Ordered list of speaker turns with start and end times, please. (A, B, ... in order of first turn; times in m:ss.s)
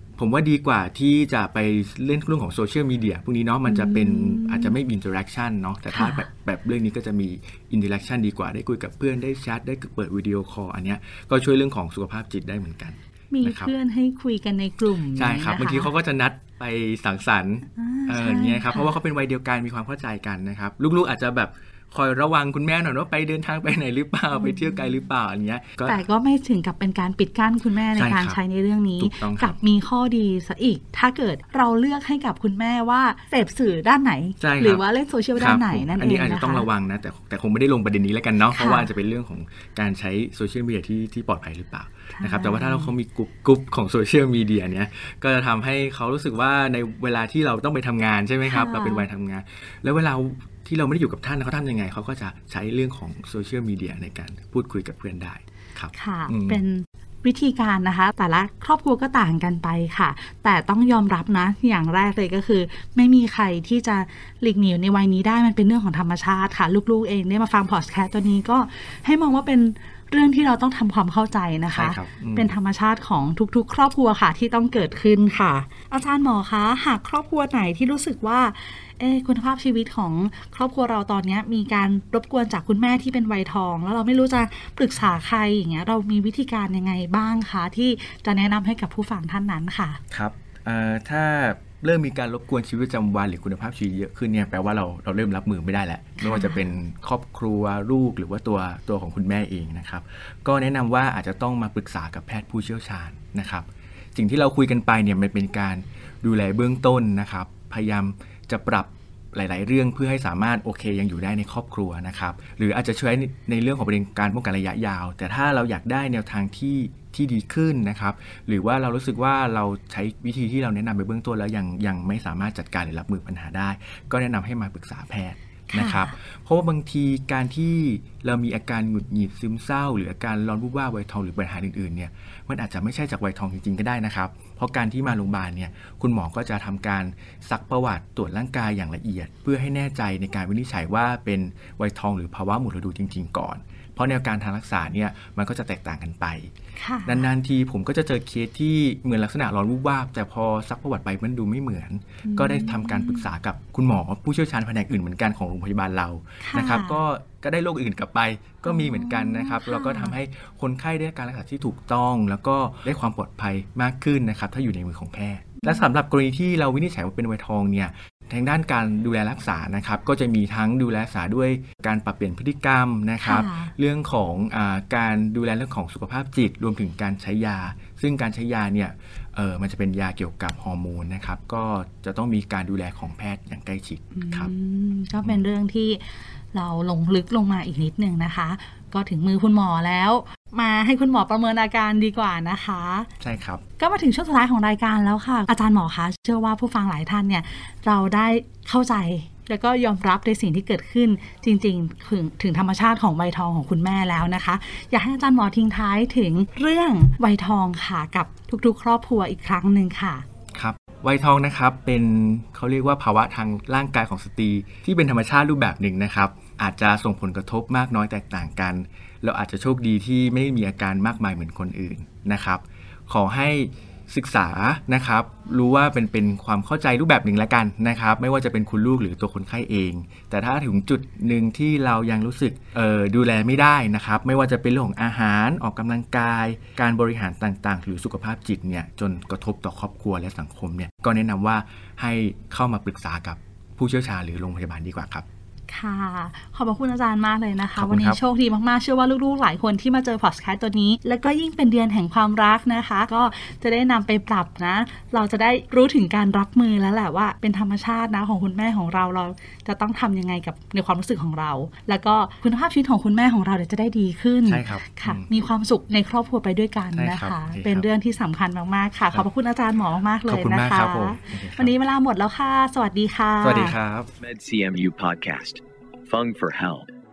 0:00.2-0:13.7 A
0:03.6-0:04.8 B
0:05.9-0:06.2 B
0:13.3-0:15.9 B
0:15.1-0:26.0 A
0:17.8-0:19.0 B
0:24.4-0:24.9 B
0:25.8-0:36.7 B
0:28.0-0:28.4 A
0:29.0-0:29.6 A
0:34.4-0:34.8 A
0:35.4-0:56.6 A
0:38.5-0:38.9 B
0:42.1-0:42.9 B
0:48.4-0:49.1 B
0:55.9-1:30.0 B
1:11.7-1:12.5 A
1:30.1-2:26.5 A
1:36.2-1:36.6 B
2:05.7-2:06.1 B
2:26.8-2:27.3 B
2:27.1-3:04.5 A
2:32.2-2:33.3 B
2:36.4-2:37.0 B
2:38.6-2:40.2 B
2:53.2-2:53.7 B
3:04.2-3:13.1 B
3:13.2-3:13.6 A
3:13.8-3:30.2 B
3:30.6-4:05.2 A
4:05.7-4:33.8 B
4:07.8-4:08.2 A
4:24.5-4:25.3 A
4:26.9-4:27.9 A
4:30.3-4:31.7 A
4:33.4-4:34.1 A
4:34.2-4:36.9 C